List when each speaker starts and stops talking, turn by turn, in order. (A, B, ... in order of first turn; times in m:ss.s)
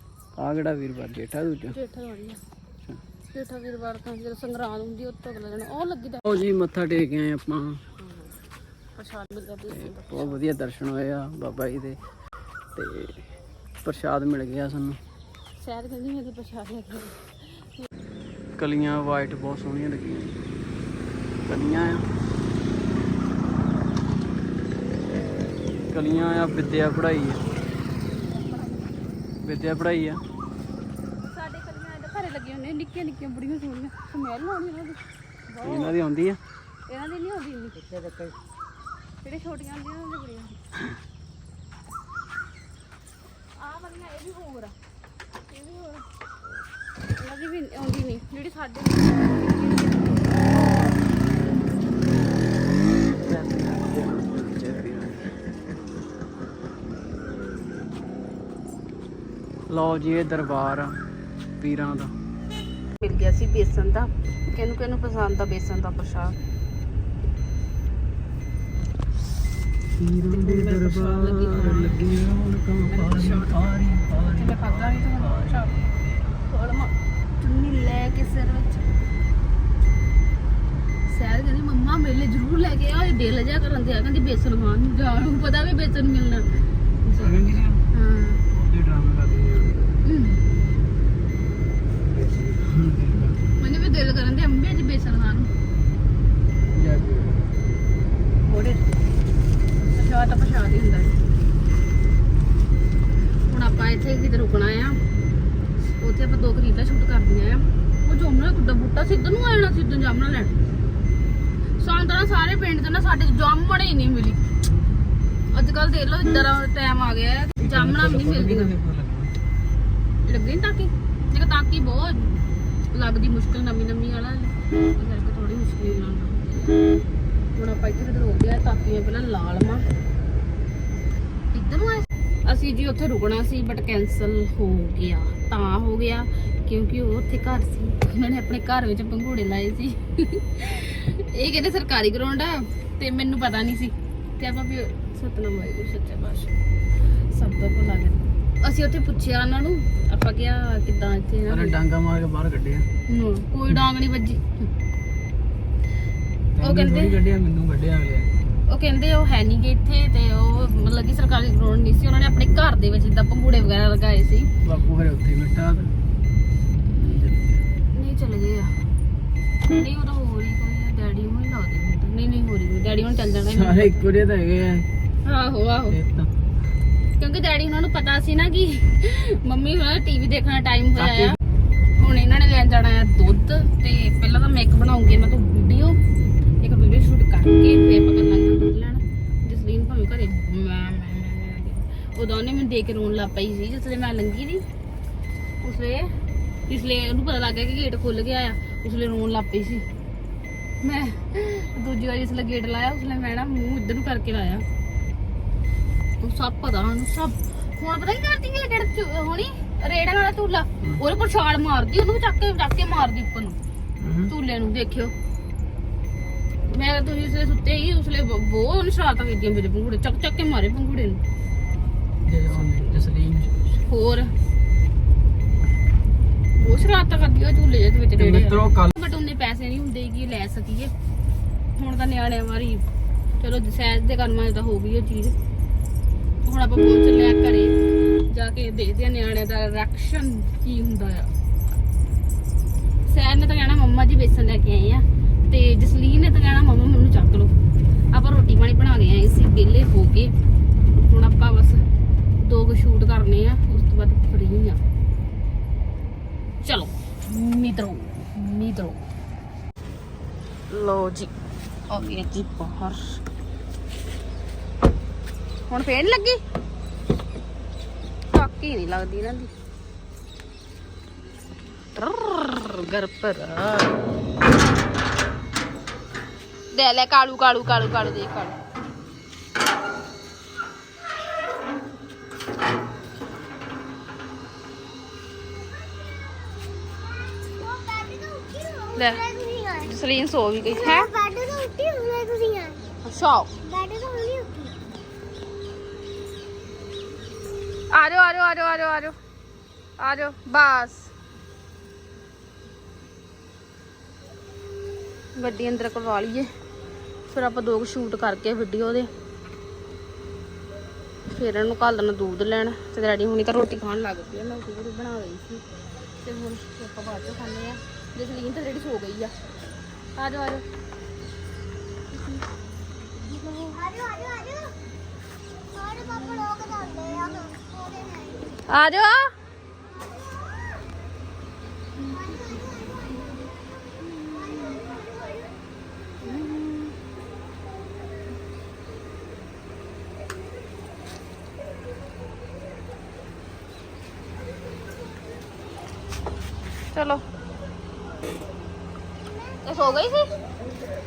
0:00.3-0:01.8 A
0:01.7-0:02.4 B
0:03.3-0:06.2 B
0:06.2-0:07.8 A
0:09.0-0:10.4 B
0:09.7-0:12.0 A
0:12.7-0:13.2 A
0:13.8-0:15.0 A
0:15.6-0:17.9 B
0:18.6-0:20.4 A
0:21.4-0:22.0 A
0:25.9-0:27.4 A
0:28.2-0:28.9 B
0:29.4-0:30.2 A
0:31.3-0:36.0 B
0:35.6-0:36.4 A
0:36.9-0:38.3 B
0:39.2-0:40.6 B
0:43.6-0:44.7 B
0:45.5-0:46.0 B
0:47.2-0:50.4 B
0:50.6-0:50.9 A
0:53.1-0:55.4 A
0:59.7-1:01.0 A
1:01.6-1:02.1 A
1:03.0-1:06.3 B
1:10.0-1:16.0 A
1:10.3-1:12.1 B
1:12.9-1:13.6 B
1:14.3-1:15.7 B
1:16.4-1:18.9 B
1:21.1-1:26.5 B
1:26.5-1:27.8 A
1:27.0-1:27.3 B
1:27.9-1:28.4 B
1:28.5-1:29.9 A
1:30.0-1:30.4 B
1:32.0-1:33.4 A
1:33.6-1:35.5 B
1:36.7-1:37.4 A
1:38.4-1:38.9 B
1:39.9-1:41.1 B
1:43.5-1:45.0 B
1:46.0-1:50.5 B
1:51.8-1:54.4 B
1:55.5-1:58.7 B
1:57.6-1:59.3 A
2:00.2-2:02.4 B
2:02.9-2:06.9 B
2:07.5-2:09.8 B
2:11.5-2:26.5 B
2:27.3-2:31.8 B
2:31.5-2:32.9 A
2:33.1-2:34.4 B
2:36.5-2:38.3 A
2:36.6-2:37.2 B
2:38.7-2:44.5 B
2:44.6-2:45.9 A
2:46.9-2:47.6 A
2:47.9-2:48.8 B
2:49.6-2:54.1 B
2:53.5-2:54.9 A
2:55.2-2:56.0 B
2:55.9-2:56.3 A
2:57.2-3:01.4 B
3:01.0-3:01.4 A
3:02.0-3:06.0 B
3:06.6-3:14.6 B
3:15.6-3:16.1 B
3:16.7-3:19.8 B
3:20.8-3:24.6 B
3:26.2-3:33.6 B
3:34.0-3:34.3 A
3:34.3-3:35.1 B
3:36.7-3:41.2 B
3:42.2-3:43.6 A
3:42.5-3:42.8 B
3:43.9-3:44.3 B
3:46.6-3:50.9 B
3:48.2-3:48.9 A
3:51.8-3:52.8 B
3:53.4-3:55.3 B
3:56.4-3:57.8 B
3:58.3-4:01.3 B
4:03.1-4:07.5 B
4:08.1-4:10.3 B
4:11.0-4:11.8 B
4:12.4-4:14.8 B
4:16.6-4:19.0 B
4:20.7-4:21.3 B
4:21.9-4:23.2 B
4:25.7-4:26.4 B
4:28.3-4:29.5 B
4:32.0-4:34.0 B
4:36.7-4:38.5 B
4:47.9-4:48.8 C
4:48.9-4:51.2 B
4:51.3-4:52.8 C
4:53.0-4:53.6 B
4:53.8-4:54.7 C
4:57.9-4:59.2 B
5:00.0-5:01.1 B
5:05.4-5:06.5 B
5:07.3-5:09.1 B
5:11.3-5:15.6 B
5:16.2-5:19.3 B
5:20.2-5:20.6 B
5:22.1-5:22.4 B
5:23.2-5:24.0 B
5:24.2-5:24.7 C
5:25.9-5:27.5 B
5:27.8-5:28.3 C
5:28.7-5:29.3 B
5:34.2-5:35.0 B
5:36.2-5:37.0 B
5:46.9-5:47.2 B
5:49.6-5:50.3 B